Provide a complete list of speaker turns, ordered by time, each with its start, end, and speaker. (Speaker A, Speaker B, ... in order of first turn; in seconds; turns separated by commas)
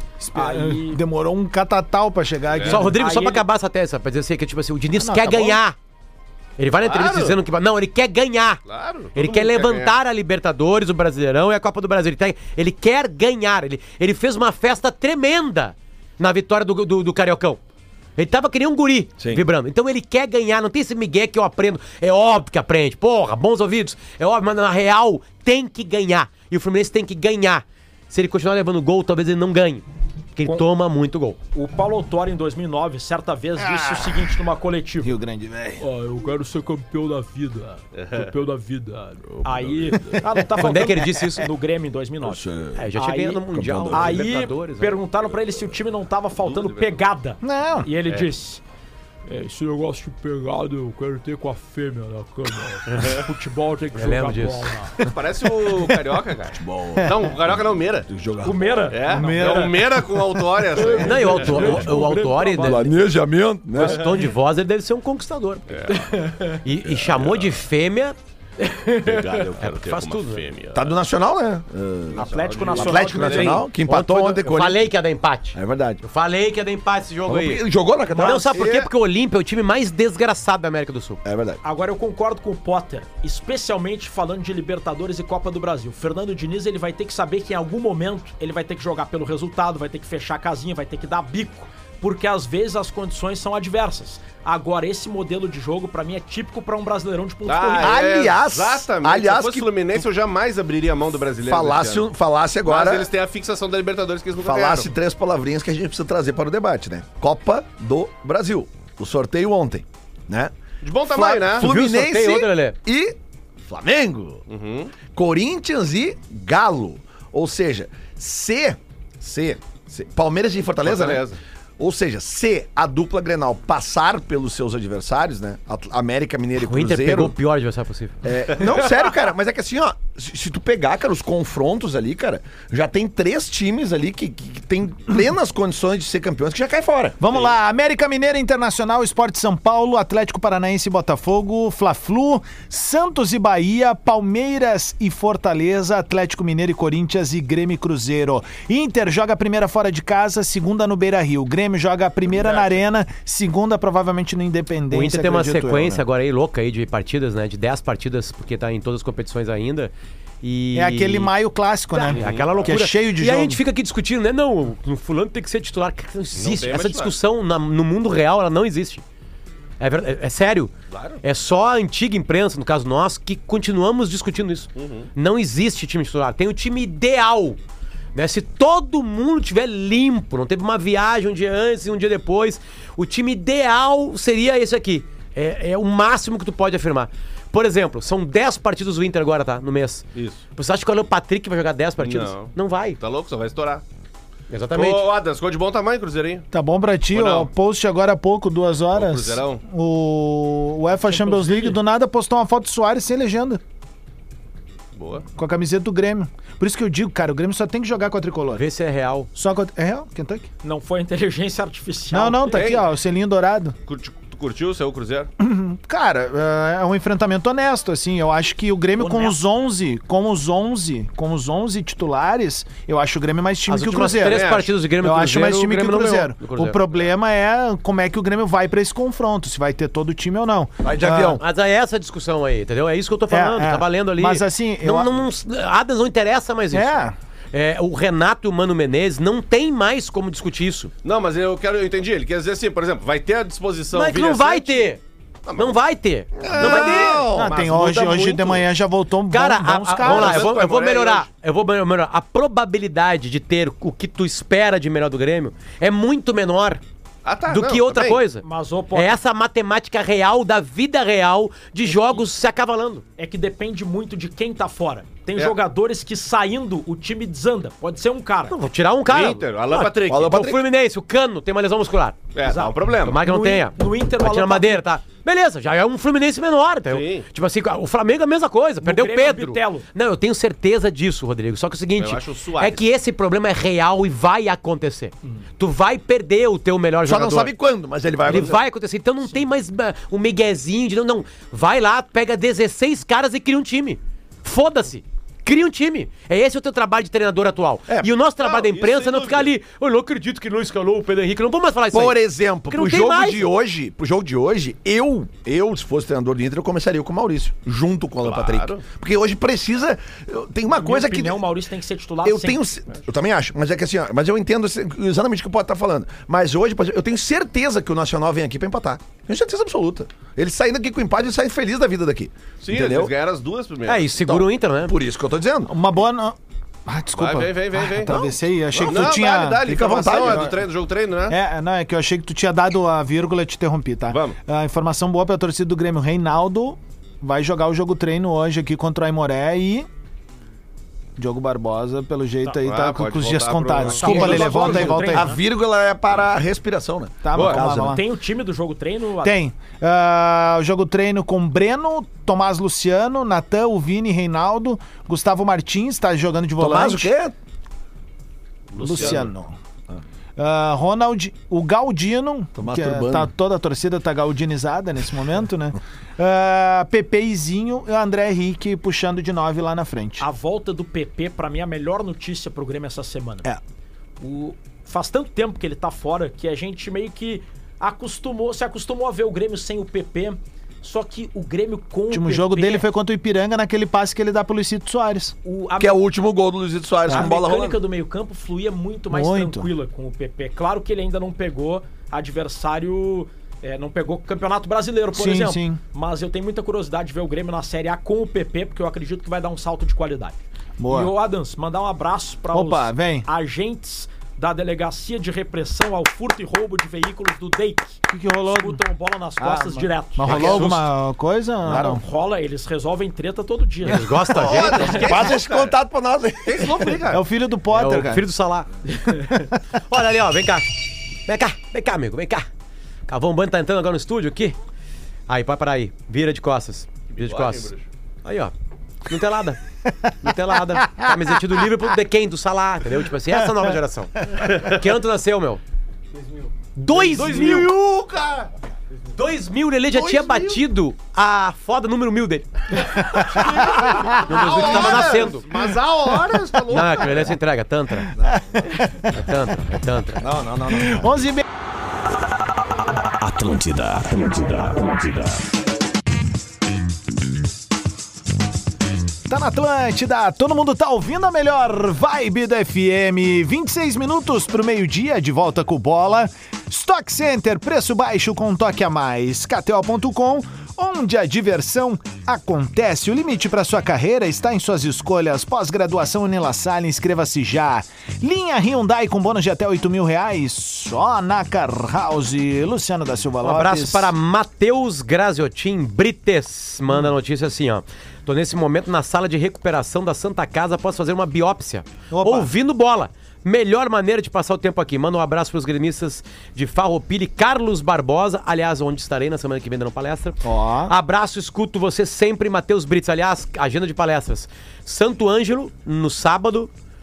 Speaker A: 0.2-3.0, Speaker B: 0.3-1.0, Speaker C: 2.5-2.8, Speaker D: 2.7-5.8, Speaker B: 2.8-3.5, Speaker A: 4.9-5.6, Speaker D: 6.6-8.6, Speaker C: 6.8-7.4, Speaker C: 8.7-9.9, Speaker D: 9.2-17.6, Speaker D: 18.2-29.9, Speaker D: 30.4-31.4, Speaker B: 31.5-35.2, Speaker A: 33.6-34.1, Speaker A: 35.0-35.9, Speaker B: 35.8-48.6, Speaker C: 37.9-38.3, Speaker C: 39.4-40.2, Speaker D: 40.6-41.5, Speaker E: 42.2-42.9, Speaker D: 42.8-45.0, Speaker E: 43.5-44.2, Speaker C: 46.4-47.0, Speaker A: 47.4-47.9, Speaker B: 49.3-55.0, Speaker C: 52.9-53.2, Speaker D: 53.9-54.8, Speaker C: 55.0-58.1, Speaker E: 56.5-58.9, Speaker B: 58.4-59.7, Speaker C: 58.9-61.8, Speaker A: 59.1-60.0, Speaker B: 60.7-62.9, Speaker D: 61.0-62.9, Speaker E: 62.6-64.2, Speaker D: 63.8-65.8, Speaker C: 65.7-66.3, Speaker B: 65.9-66.6, Speaker D: 66.6-68.2, Speaker C: 67.0-67.6, Speaker B: 68.8-69.2, Speaker C: 69.0-71.0, Speaker D: 69.6-70.4, Speaker E: 70.7-74.9, Speaker C: 72.2-73.7, Speaker B: 72.2-73.7, Speaker D: 73.8-81.2, Speaker E: 75.5-76.0, Speaker E: 77.3-78.9, Speaker E: 81.2-81.6, Speaker B: 81.6-98.0, Speaker C: 97.5-102.1, Speaker E: 97.8-100.0, Speaker E: 101.5-103.1, Speaker C: 102.7-104.9, Speaker E: 104.4-110.5, Speaker C: 110.8-111.8, Speaker E: 111.1-114.4, Speaker D: 111.6-112.8, Speaker C: 114.5-114.9, Speaker E: 115.1-121.3, Speaker C: 120.8-121.4, Speaker E: 121.8-127.3, Speaker D: 126.6-128.2, Speaker E: 128.2-137.2, Speaker C: 128.7-128.9, Speaker A: 137.2-156.0, Speaker C: 152.3-152.8, Speaker D: 154.9-161.3, Speaker A: 160.7-163.6, Speaker D: 161.9-169.0, Speaker C: 162.1-162.7, Speaker C: 166.4-167.2, Speaker D: 169.8-177.6, Speaker C: 170.9-171.2, Speaker C: 174.8-175.1, Speaker D: 178.2-193.0, Speaker C: 190.2-190.4, Speaker C: 192.0-193.8, Speaker D: 194.5-195.1, Speaker C: 194.7-196.5, Speaker A: 196.5-203.6, Speaker C: 197.1-197.5, Speaker C: 198.9-199.6, Speaker B: 201.1-201.8, Speaker C: 204.9-205.2, Speaker A: 205.4-208.6, Speaker D: 208.6-209.3, Speaker A: 209.3-210.5, Speaker B: 210.6-212.7, Speaker A: 212.1-213.8, Speaker C: 212.5-212.9, Speaker C: 213.9-215.3, Speaker A: 215.4-231.4, Speaker B: 219.0-219.3, Speaker D: 223.7-227.1, Speaker C: 224.2-224.7, Speaker E: 230.8-231.4, Speaker D: 231.4-240.9, Speaker A: 233.3-235.1, Speaker A: 236.7-237.2, Speaker C: 241.0-244.9, Speaker D: 243.9-245.0, Speaker C: 245.5-245.8, Speaker D: 245.6-247.2, Speaker C: 246.4-248.7, Speaker E: 246.4-247.5, Speaker A: 246.7-250.5, Speaker D: 249.3-256.8, Speaker C: 250.0-251.3, Speaker C: 257.2-258.2, Speaker D: 257.5-263.0, Speaker B: 258.4-259.1, Speaker B: 261.9-262.2, Speaker B: 263.2-268.6, Speaker D: 268.5-272.2, Speaker C: 269.1-270.6, Speaker E: 270.1-270.5, Speaker C: 272.4-273.2, Speaker B: 272.4-274.9, Speaker D: 273.1-287.5, Speaker C: 276.9-277.3, Speaker B: 278.8-279.9, Speaker C: 282.0-282.8, Speaker E: 287.1-288.6, Speaker D: 288.2-303.4, Speaker C: 298.4-299.5, Speaker E: 301.9-311.4, Speaker C: 308.2-308.8, Speaker B: 310.7-312.6, Speaker E: 312.2-323.1, Speaker C: 322.6-324.2, Speaker D: 323.9-324.9, Speaker E: 324.3-325.7, Speaker A: 325.7-330.6, Speaker C: 327.1-328.2, Speaker E: 328.7-330.5, Speaker C: 328.8-331.4, Speaker A: 331.3-339.9, Speaker C: 334.1-334.4, Speaker A: 341.2-345.3, Speaker C: 342.6-344.9, Speaker B: 343.9-345.4, Speaker E: 344.1-348.0, Speaker A: 347.2-348.0, Speaker C: 347.3-347.6, Speaker B: 347.5-349.4, Speaker A: 349.2-357.1, Speaker E: 356.6-357.4, Speaker C: 358.7-359.2, Speaker A: 358.8-359.6, Speaker A: 360.4-370.2, Speaker E: 362.6-363.3, Speaker B: 370.2-373.5, Speaker B: 374.2-382.8, Speaker A: 382.1-385.4, Speaker B: 385.4-386.1, Speaker E: 385.8-387.8, Speaker B: 387.1-410.7, Speaker A: 389.1-389.7, Speaker A: 395.1-395.8, Speaker A: 400.8-401.1, Speaker A: 402.5-403.3, Speaker A: 408.1-408.8, Speaker A: 409.4-412.0, Speaker C: 410.3-410.8, Speaker D: 410.5-410.8, Speaker B: 411.7-415.0, Speaker D: 413.9-415.1, Speaker C: 414.4-415.7, Speaker E: 414.5-416.9, Speaker C: 416.4-417.2, Speaker A: 417.1-418.2, Speaker D: 417.7-418.7, Speaker D: 419.9-422.5, Speaker D: 423.1-424.6, Speaker D: 425.3-427.7, Speaker C: 427.1-427.9, Speaker D: 428.2-428.5, Speaker D: 429.1-429.6, Speaker D: 430.2-435.6, Speaker A: 430.7-431.2, Speaker A: 433.3-433.7, Speaker D: 436.8-437.7, Speaker C: 437.1-437.9, Speaker E: 437.2-438.5, Speaker D: 439.1-443.0, Speaker E: 439.9-440.6, Speaker A: 443.1-444.2, Speaker C: 443.7-447.3, Speaker D: 444.1-445.5, Speaker E: 444.3-445.3, Speaker D: 446.7-448.1, Speaker A: 448.2-449.1, Speaker D: 449.1-450.2, Speaker E: 450.2-451.1, Speaker A: 450.7-451.5, Speaker D: 453.2-453.7, Speaker A: 459.3-484.1, Speaker D: 483.4-506.7, Speaker A: 492.1-492.5, Speaker A: 500.4-500.9